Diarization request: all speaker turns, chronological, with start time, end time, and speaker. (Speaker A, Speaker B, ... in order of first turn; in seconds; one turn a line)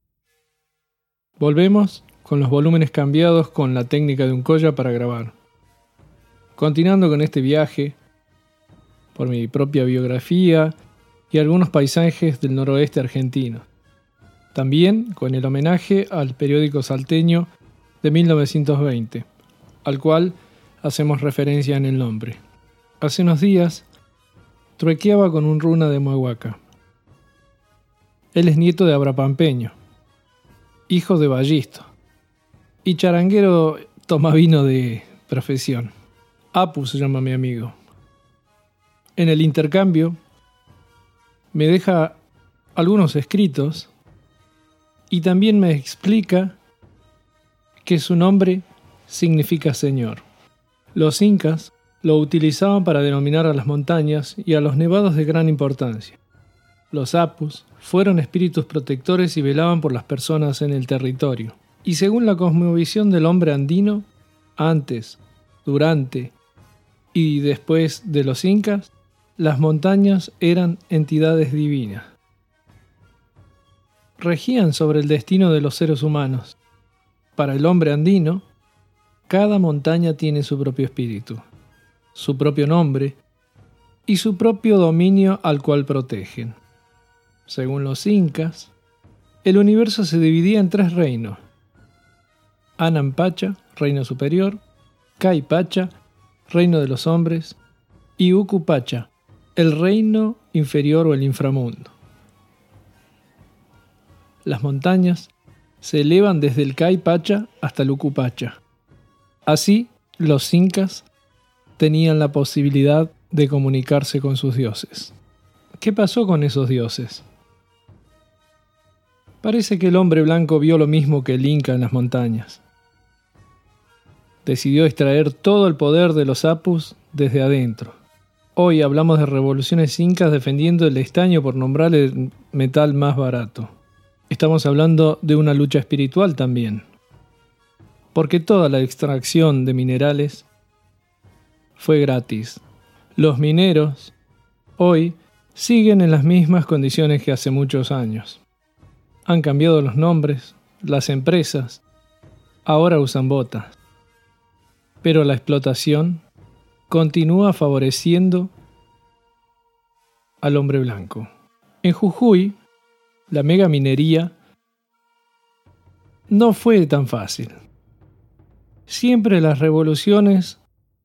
Speaker A: 1.4-5.3
Speaker A: 6.6-8.0
Speaker A: 9.1-10.7
Speaker A: 11.3-13.7
Speaker A: 14.5-19.3
Speaker A: 19.9-22.4
Speaker A: 23.0-23.9
Speaker A: 24.8-26.6
Speaker A: 28.3-29.8
Speaker A: 30.9-31.9
Speaker A: 32.8-35.9
Speaker A: 36.5-37.8
Speaker A: 39.2-40.2
Speaker A: 41.5-42.2
Speaker A: 42.8-43.9
Speaker A: 45.1-46.6
Speaker A: 47.8-50.2
Speaker A: 51.0-56.2
Speaker A: 56.9-66.3
Speaker A: 67.1-72.1
Speaker A: 74.2-76.6
Speaker A: 77.4-78.4
Speaker A: 79.3-81.4
Speaker A: 82.2-83.2
Speaker A: 84.1-86.6
Speaker A: 87.5-88.7
Speaker A: 89.4-91.4
Speaker A: 92.8-94.6
Speaker A: 95.2-95.9
Speaker A: 96.5-97.6
Speaker A: 98.2-101.9
Speaker A: 104.4-105.3
Speaker A: 105.8-108.6
Speaker A: 109.5-111.1
Speaker A: 111.8-115.2
Speaker A: 115.8-117.3
Speaker A: 119.4-122.6
Speaker A: 124.4-128.0
Speaker A: 128.6-133.7
Speaker A: 134.3-136.8
Speaker A: 138.1-140.5
Speaker A: 141.8-142.6
Speaker A: 143.2-144.1
Speaker A: 144.8-148.4
Speaker A: 149.2-151.8
Speaker A: 152.7-153.7
Speaker A: 155.0-156.2
Speaker A: 156.9-158.5
Speaker A: 160.4-161.3
Speaker A: 161.8-162.6
Speaker A: 163.3-164.3
Speaker A: 166.3-167.6
Speaker A: 168.9-170.6